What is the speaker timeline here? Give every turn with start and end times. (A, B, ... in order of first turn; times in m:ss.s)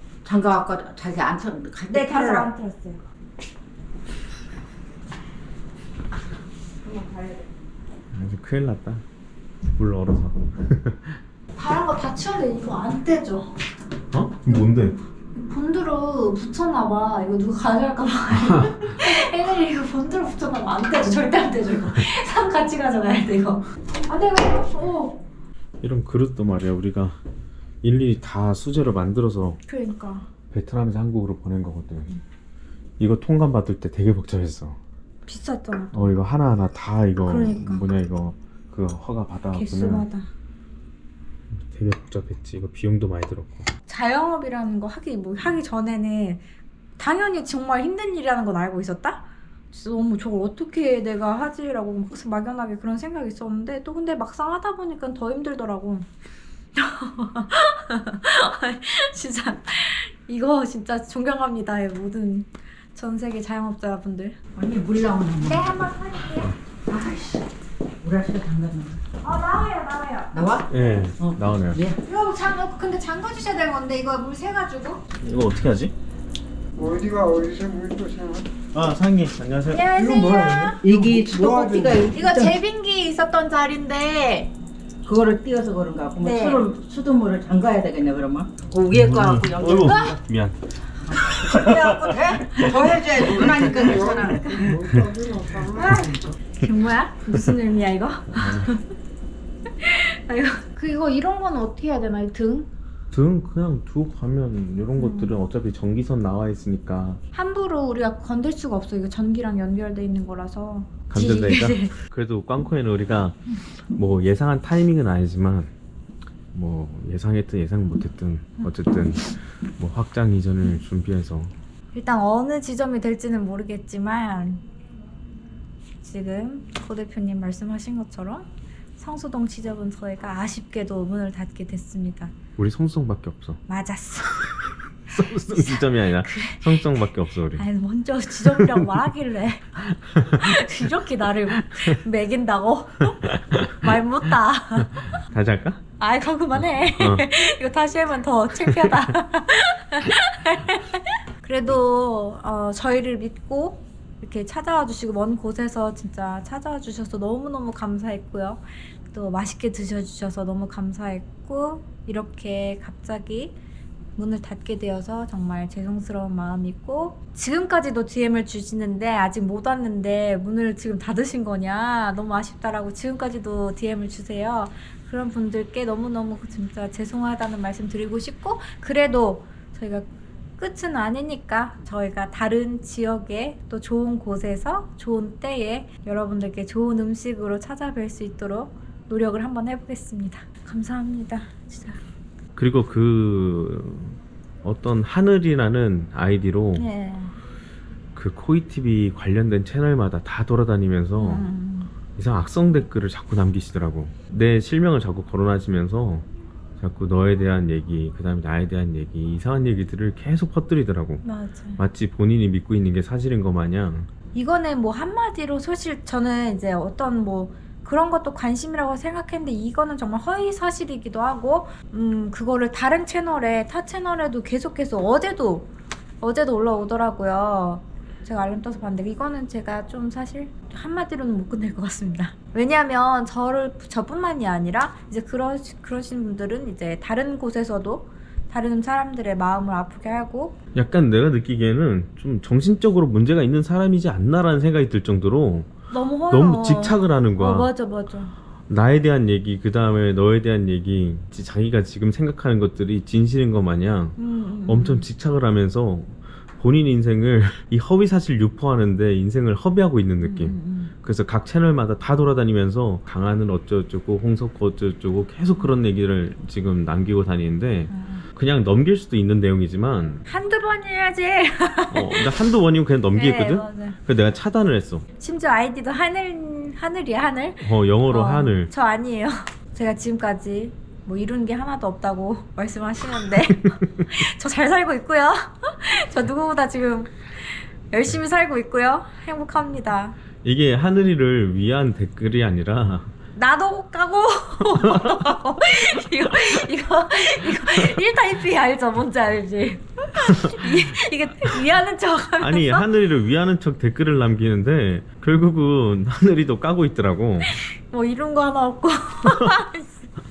0:00.2-0:02.5 A
0:01.9-0:03.0 B
0:06.9-0:07.4 B
0:08.1-0:09.0 C
0:09.8-0:11.2 C
0:11.5-0:13.6 B
0:14.1-0:15.0 C
0:15.3-0:25.2 B
0:18.5-0:18.8 C
0:25.8-0:27.2 C
0:27.8-0:29.6 C
0:29.7-0:30.3 B
0:30.5-0:32.1 C
0:33.0-0:34.8 C
0:35.2-0:36.1 B
0:35.9-0:40.1 C
0:37.2-0:37.9 B
0:39.5-0:40.3 B
0:41.5-0:43.7 C
0:43.9-0:46.4 B
0:47.0-0:56.1 B
0:56.8-1:04.4 B
1:04.6-1:05.8 A
1:05.4-1:06.5 B
1:06.9-1:07.5 A
1:08.0-1:09.0 A
1:09.2-1:10.5 B
1:10.3-1:12.0 A
1:10.7-1:11.8 C
1:12.0-1:15.0 B
1:15.2-1:15.9 C
1:16.8-1:18.4 D
1:18.7-1:19.9 C
1:19.7-1:20.8 B
1:20.8-1:22.6 A
1:22.1-1:24.5 B
1:25.0-1:30.1 A
1:26.2-1:26.6 B
1:28.9-1:30.6 C
1:29.8-1:30.2 B
1:31.1-1:32.1 C
1:31.1-1:34.6 A
1:34.1-1:34.7 B
1:34.8-1:35.1 C
1:34.8-1:35.7 D
1:35.6-1:38.8 B
1:38.3-1:38.7 C
1:39.8-1:42.7 B
1:43.1-1:47.2 C
1:45.0-1:45.4 B
1:47.3-1:51.9 B
1:51.1-1:53.4 C
1:54.0-1:55.7 C
1:56.5-2:01.5 C
2:01.9-2:04.6 B
2:06.0-2:12.3 B
2:12.6-2:13.6 C
2:13.7-2:14.5 B
2:15.1-2:17.7 C
2:15.5-2:16.7 B
2:17.6-2:25.2 B
2:18.6-2:18.9 C
2:20.1-2:20.5 C
2:23.4-2:23.8 C
2:25.2-2:25.8 C
2:26.0-2:43.6 B
2:27.0-2:27.3 C
2:44.2-3:12.0 B
3:12.6-3:16.9 C
3:16.8-3:17.3 B
3:18.2-3:21.5 C
3:21.2-3:21.9 B
3:22.2-3:26.3 C
3:26.8-3:31.2 C
3:31.2-3:31.8 B
3:31.8-3:34.1 C
3:34.3-4:00.6 B
4:00.7-4:05.7 C
4:05.9-4:08.3 B
4:06.3-4:07.7 C
4:08.7-4:30.2 C
4:14.2-4:15.1 B
4:20.2-4:20.9 B
4:27.9-4:28.2 B
4:30.3-4:32.4 B
4:31.9-4:35.0 C
4:33.2-4:34.0 B
4:35.2-4:50.2 B
4:37.6-4:38.7 C
4:50.4-4:53.1 C
4:53.4-5:02.8 B
4:54.8-4:55.2 C
4:57.6-4:58.0 C
5:00.6-5:00.8 C
5:02.4-5:07.5 C
5:07.5-5:10.1 B